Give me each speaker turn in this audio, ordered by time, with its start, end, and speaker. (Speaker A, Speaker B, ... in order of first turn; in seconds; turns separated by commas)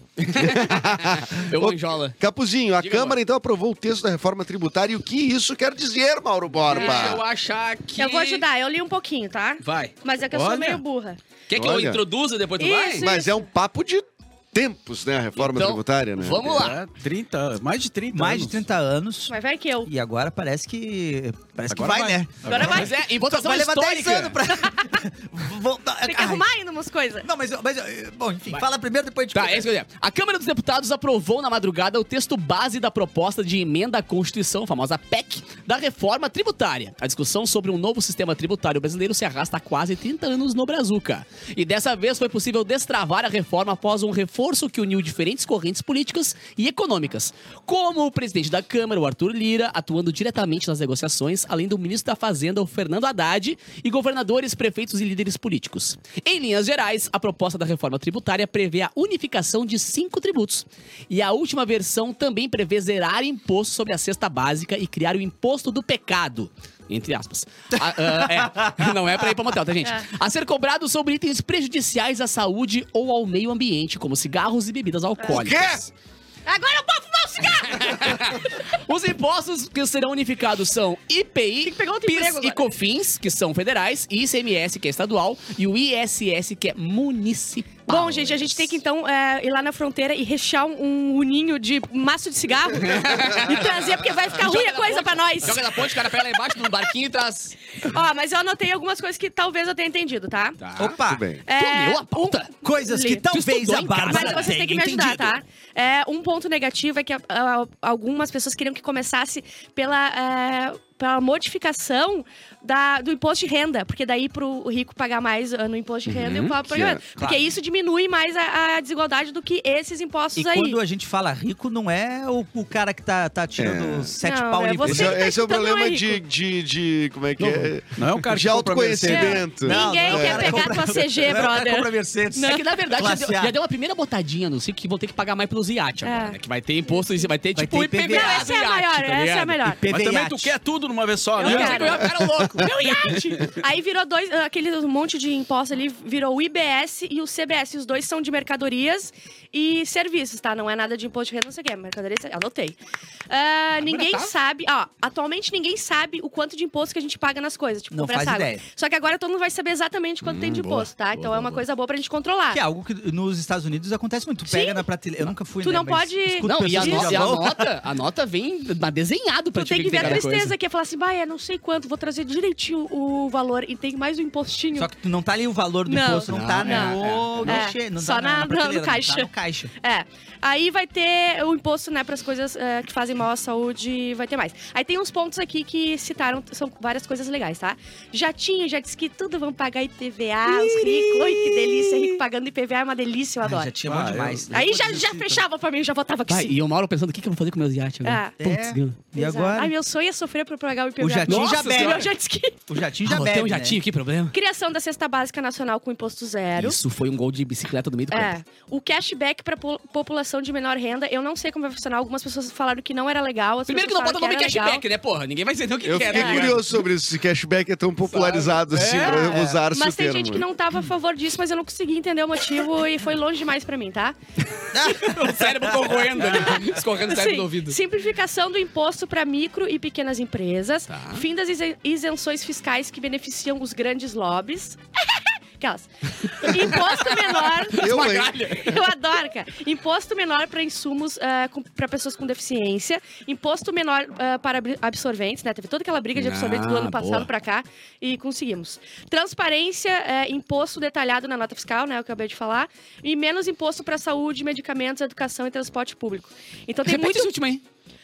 Speaker A: 0.2-2.2, Speaker B: 0.3-7.2, Speaker A: 2.8-3.2, Speaker A: 6.7-8.5, Speaker C: 6.8-7.2, Speaker C: 8.0-11.2, Speaker A: 9.6-9.9, Speaker D: 10.3-10.8, Speaker A: 11.5-13.1, Speaker B: 11.5-12.0, Speaker C: 12.6-13.5, Speaker B: 13.0-16.7, Speaker A: 15.4-16.8, Speaker D: 16.4-18.6, Speaker E: 18.1-26.5, Speaker C: 19.3-19.9, Speaker D: 21.7-22.9, Speaker C: 22.4-22.9, Speaker A: 22.5-24.4, Speaker C: 26.0-27.3, Speaker E: 27.2-29.7, Speaker A: 29.3-75.9, Speaker E: 68.0-69.0, Speaker C: 75.2-75.6, Speaker B: 75.3-75.8, Speaker C: 76.5-78.5, Speaker A: 77.4-88.8, Speaker C: 81.6-82.6, Speaker C: 87.9-95.9, Speaker A: 92.7-97.5, Speaker C: 97.8-100.6, Speaker A: 100.6-101.0, Speaker E: 100.8-101.3, Speaker B: 101.0-101.4, Speaker C: 101.5-103.3, Speaker A: 101.5-102.5, Speaker E: 102.6-105.0, Speaker A: 103.3-105.3, Speaker C: 104.0-120.8, Speaker A: 116.1-116.6, Speaker B: 116.7-117.0, Speaker E: 117.2-117.5, Speaker E: 120.3-125.3, Speaker B: 123.6-124.2, Speaker C: 124.2-126.2, Speaker B: 124.8-130.8, Speaker D: 127.4-129.5, Speaker C: 129.1-132.6, Speaker E: 129.6-133.6, Speaker A: 132.3-139.7, Speaker C: 136.0-137.3, Speaker E: 137.6-138.5, Speaker C: 138.0-139.8, Speaker E: 139.8-140.6, Speaker D: 139.9-142.2, Speaker C: 141.4-152.8, Speaker A: 141.4-143.2, Speaker D: 143.2-143.5, Speaker C: 153.3-162.6, Speaker A: 153.8-154.3, Speaker E: 157.9-158.7, Speaker A: 160.2-161.6, Speaker E: 162.5-167.7, Speaker C: 164.5-164.9, Speaker C: 165.6-167.3, Speaker A: 166.4-170.6, Speaker C: 169.6-174.9, Speaker E: 174.8-179.7, Speaker C: 175.9-179.3, Speaker A: 176.3-177.7, Speaker C: 179.8-193.7, Speaker E: 190.4-192.2, Speaker E: 193.4-194.9, Speaker D: 193.8-195.4, Speaker C: 194.5-196.6, Speaker A: 196.3-199.0, Speaker C: 198.0-198.4, Speaker E: 198.4-199.7, Speaker C: 199.1-202.6, Speaker E: 201.0-202.1, Speaker A: 201.2-202.1, Speaker E: 202.7-203.8, Speaker A: 203.0-204.4, Speaker C: 204.3-206.8, Speaker A: 206.6-208.3, Speaker C: 208.1-214.8, Speaker A: 213.7-216.8, Speaker B: 215.8-220.5, Speaker C: 216.1-216.6, Speaker A: 218.1-219.4, Speaker E: 219.0-219.6, Speaker C: 219.3-224.2, Speaker E: 224.7-226.2, Speaker A: 224.8-227.8, Speaker C: 226.3-257.3, Speaker A: 230.9-231.3, Speaker A: 236.2-238.8, Speaker B: 237.8-238.4, Speaker A: 246.2-247.3, Speaker A: 256.9-257.6